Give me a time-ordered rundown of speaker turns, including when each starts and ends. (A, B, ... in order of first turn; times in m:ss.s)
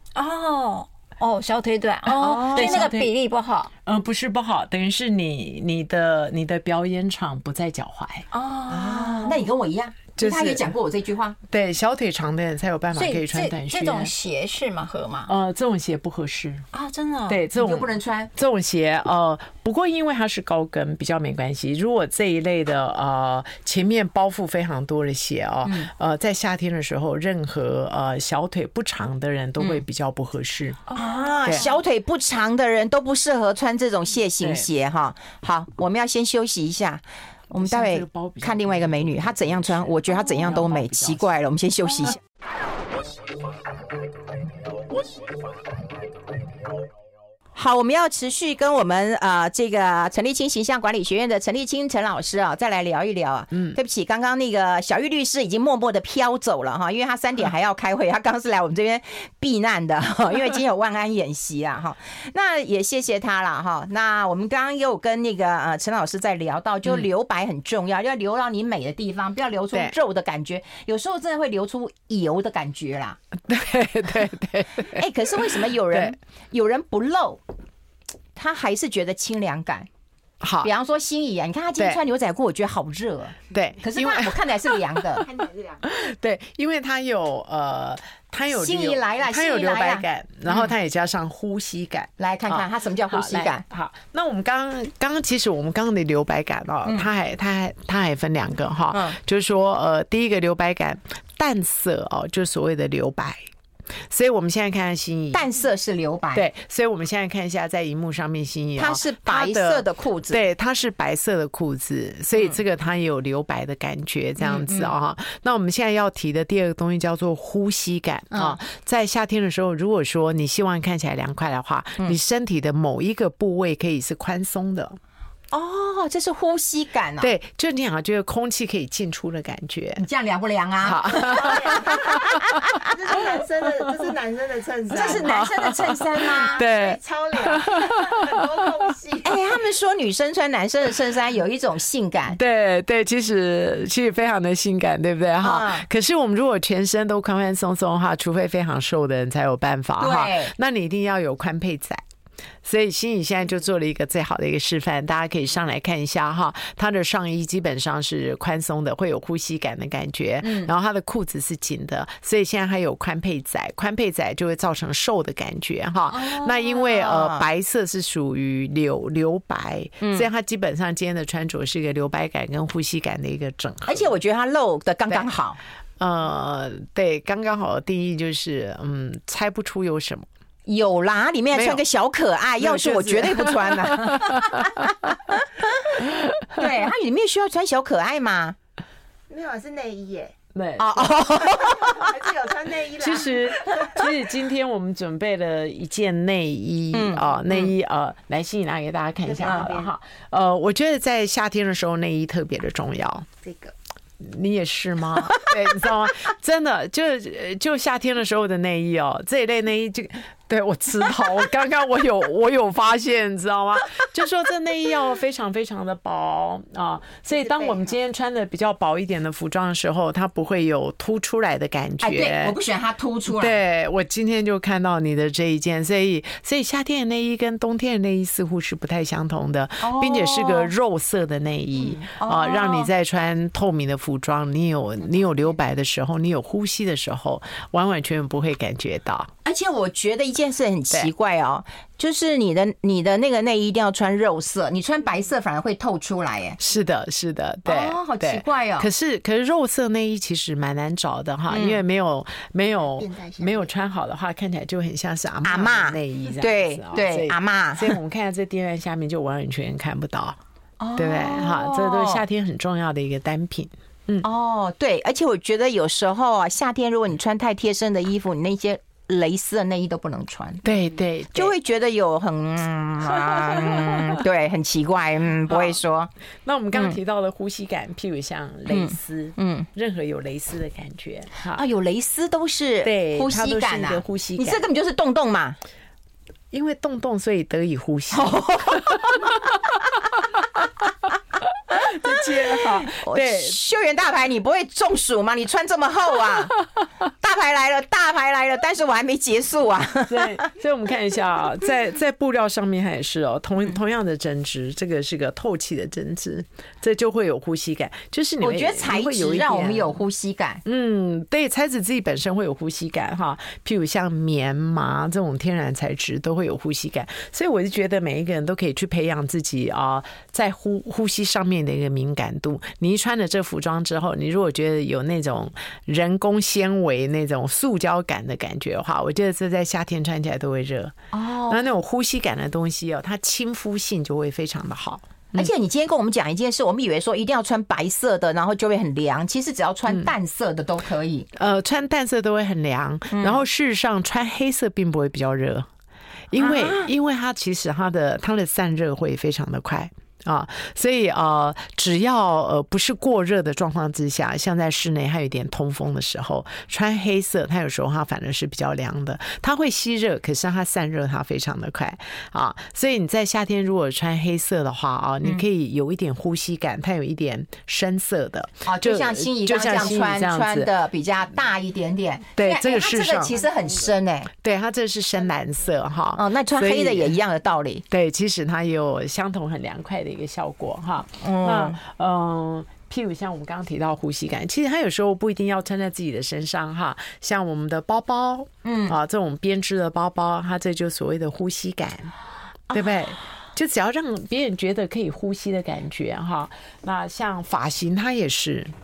0:00.2-0:03.7 A
0:02.1-0:03.1 B
0:02.2-0:02.9 C
0:03.8-0:08.3 B
0:08.3-0:09.4 A
0:08.7-0:11.4 C
0:10.2-0:10.7 B
0:11.5-0:14.1 B
0:13.0-0:15.3 A
0:15.3-0:16.7 B
0:16.7-0:18.3 C
0:17.3-0:30.9 B
0:25.6-0:25.9 C
0:30.9-0:42.2 C
0:31.0-0:31.7 A
0:31.4-0:31.7 B
0:34.4-0:34.7 B
0:37.6-0:41.3 B
0:47.6-1:13.2 C
1:13.5-1:16.2 B
1:14.9-1:17.4 C
1:18.4-1:19.9 C
1:20.4-1:20.7 B
1:20.6-1:25.3 C
1:23.5-1:25.2 B
1:25.3-1:25.8 D
1:25.8-1:43.4 B
1:28.5-1:30.7 C
1:32.2-1:33.6 C
1:38.9-1:39.2 C
1:44.1-1:45.5 B
1:45.3-1:46.5 C
1:46.3-2:05.0 B
1:48.8-1:50.4 C
1:54.4-1:54.9 C
1:58.3-1:58.6 C
2:05.5-2:07.3 C
2:07.2-2:10.0 B
2:10.0-2:12.8 C
2:10.8-2:12.4 B
2:11.1-2:15.5 D
2:14.9-2:16.6 C
2:14.9-2:18.4 B
2:16.1-2:19.4 D
2:19.2-2:22.4 C
2:22.4-2:32.0 B
2:25.4-2:25.9 C
2:30.0-2:30.5 C
2:32.6-2:54.1 B
2:40.4-2:40.7 C
2:46.1-2:47.5 C
2:50.0-2:50.3 C
2:53.8-2:55.6 C
2:56.0-3:00.3 B
3:00.7-3:08.6 C
3:01.5-3:01.8 B
3:02.6-3:04.8 B
3:09.3-3:10.3 D
3:10.6-3:11.2 B
3:10.8-3:12.1 C
3:11.3-3:14.0 D
3:13.0-3:23.3 B
3:16.9-3:17.7 C
3:19.2-3:19.9 D
3:19.4-3:19.7 C
3:23.4-3:23.7 D
3:24.2-3:42.6 B
3:37.4-3:37.9 D
3:42.0-3:43.6 C
3:43.3-3:59.3 B
3:49.8-3:50.7 C
3:51.9-3:52.9 C
3:59.4-4:06.6 C
4:06.6-4:20.4 B
4:07.7-4:08.9 C
4:11.5-4:11.8 C
4:13.0-4:13.7 D
4:15.4-4:18.0 C
4:20.8-4:22.2 C
4:21.0-4:24.3 B
4:24.2-4:30.6 C
4:30.6-4:31.6 B
4:31.3-4:36.1 C
4:33.1-4:34.2 B
4:35.5-4:35.8 B
4:36.4-4:41.6 B
4:38.7-4:39.7 C
4:41.5-4:45.6 C
4:42.8-4:44.6 B
4:46.5-4:49.2 B
4:48.1-4:49.4 C
4:51.7-4:53.6 B
4:52.5-4:56.6 C
4:57.2-5:00.5 C
5:00.1-5:10.0 B
5:08.4-5:10.6 C
5:10.6-5:31.0 B
5:31.1-5:31.6 C
5:31.5-5:35.5 B
5:35.3-5:41.3 C
5:41.3-5:45.7 B
5:43.1-5:43.4 C
5:46.3-6:10.7 B
5:46.4-5:46.9 C
6:08.6-6:14.3 C
6:12.4-6:13.3 B
6:14.4-6:17.2 B
6:16.2-6:17.8 C
6:17.9-6:32.1 B
6:21.2-6:21.8 C
6:28.6-6:29.0 C
6:32.7-6:38.7 B